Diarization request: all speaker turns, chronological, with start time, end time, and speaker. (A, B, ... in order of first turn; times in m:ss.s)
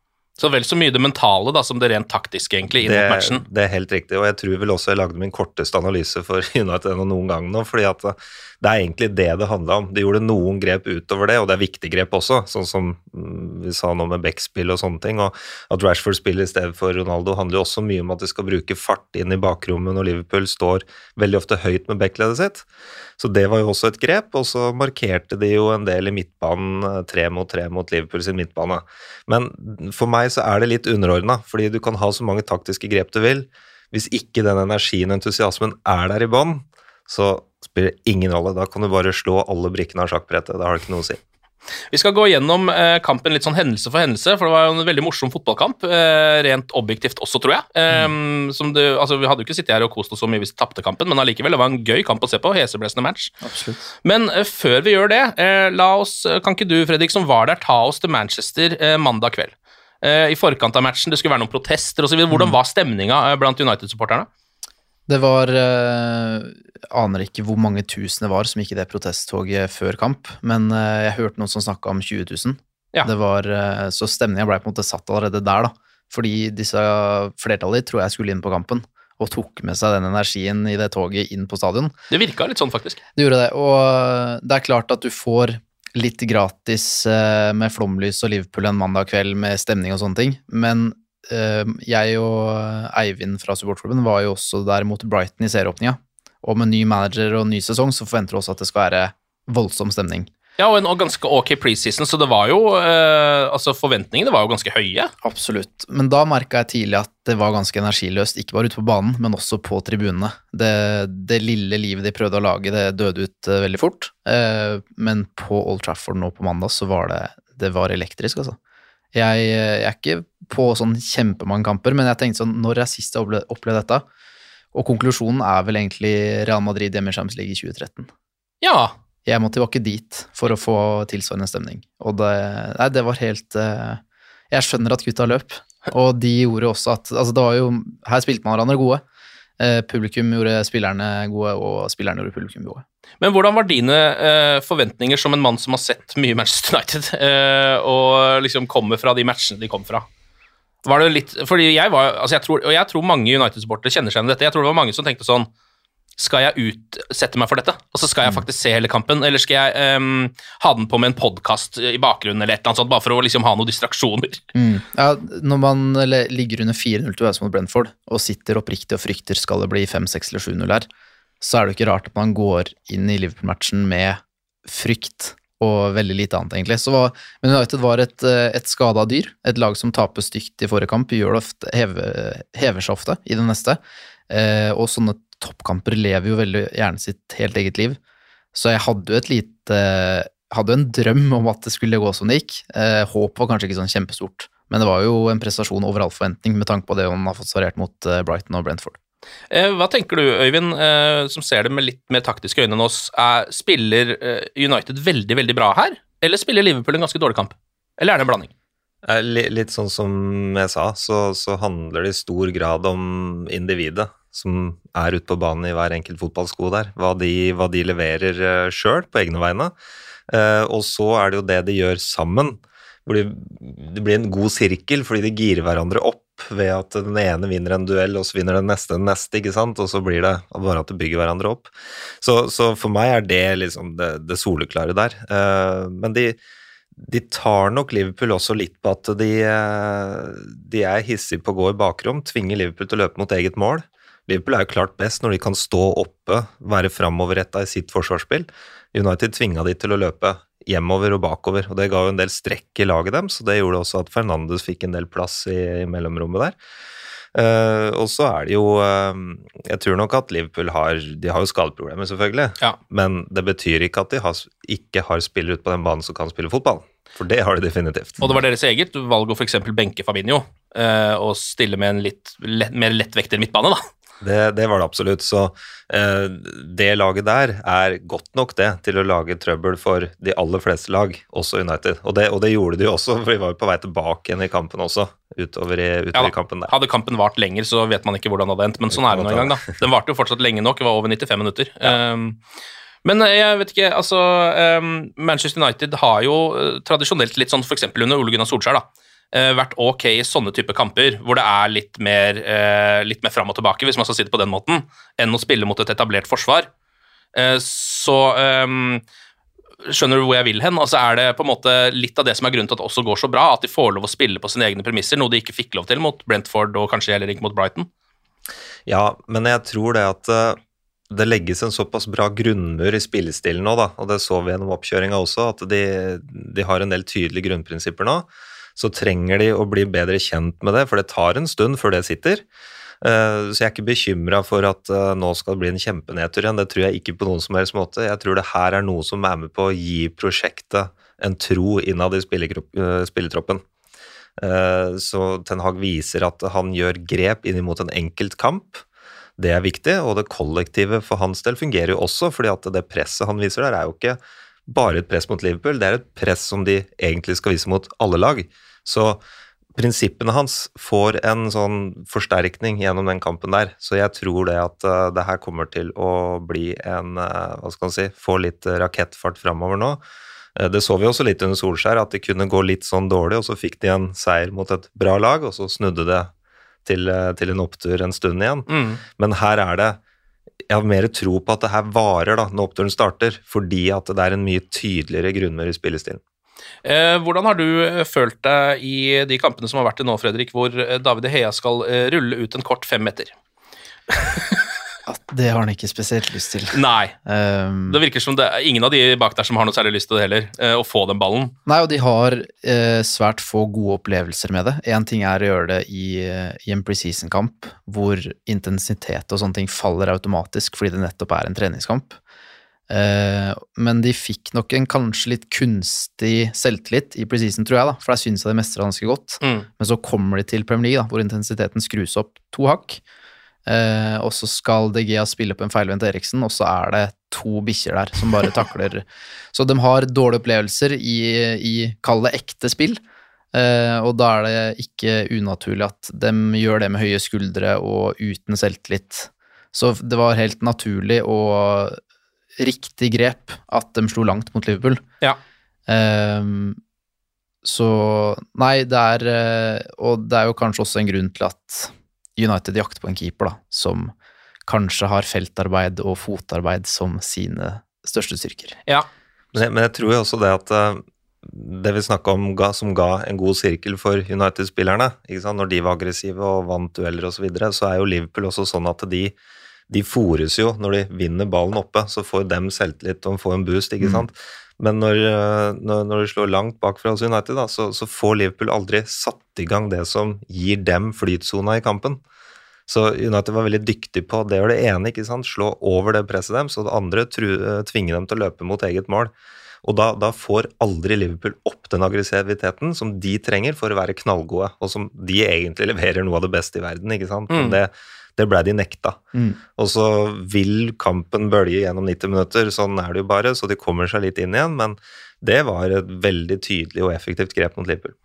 0:00.4-0:03.4 A
0:02.8-0:22.6 B
0:23.2-0:41.2 B
0:41.9-0:53.3 A
0:53.4-0:53.9 C
0:54.0-1:04.3 A
1:02.3-1:02.6 C
1:05.1-1:21.9 C
1:22.1-1:23.0 A
1:23.1-1:40.3 C
1:40.6-1:45.1 A
1:45.2-1:58.6 C
1:59.1-2:04.0 C
2:04.7-2:08.1 C
2:08.6-2:08.9 A
2:09.2-2:19.0 C
2:19.6-2:22.8 C
2:23.2-2:30.1 A
2:30.8-2:35.5 A
2:36.2-2:44.4 A
2:44.5-2:50.9 C
2:51.4-3:03.8 C
3:04.3-3:08.0 C
3:08.5-3:19.0 C
3:19.5-3:28.5 A
3:29.0-3:39.7 B
3:40.3-3:56.4 B
3:57.0-4:16.6 B
4:17.3-4:28.3 B
4:28.2-4:33.8 A
4:34.2-4:46.7 B
4:46.1-4:52.4 A
4:48.9-4:49.6 B
4:53.0-5:06.7 A
5:07.3-5:09.0 A
5:09.8-5:17.9 A
5:18.9-5:20.6 B
5:21.1-5:32.4 B
5:33.0-5:43.6 B
5:44.4-5:48.8 B
5:49.4-5:59.2 B
5:59.8-6:10.0 B
6:10.6-6:16.3 B
6:16.8-6:20.0 B
6:18.7-6:19.0 A
6:20.7-6:26.2 B
6:26.8-6:33.3 A
6:35.0-6:38.0 C
6:36.7-6:37.1 A
6:37.9-6:41.5 A
6:41.6-6:52.2 C
6:52.9-7:03.0 C
6:59.4-6:59.7 A
7:03.6-7:13.0 C
7:13.5-7:22.0 C
7:22.6-7:25.0 C
7:25.9-7:26.8 C
7:27.6-7:34.1 C
7:34.7-7:38.8 C
7:39.5-7:49.3 B
7:49.9-8:02.2 B
8:02.9-8:09.3 B
8:09.8-8:19.2 B
8:17.5-8:17.8 A
8:19.3-8:19.6 C
8:19.8-8:28.1 B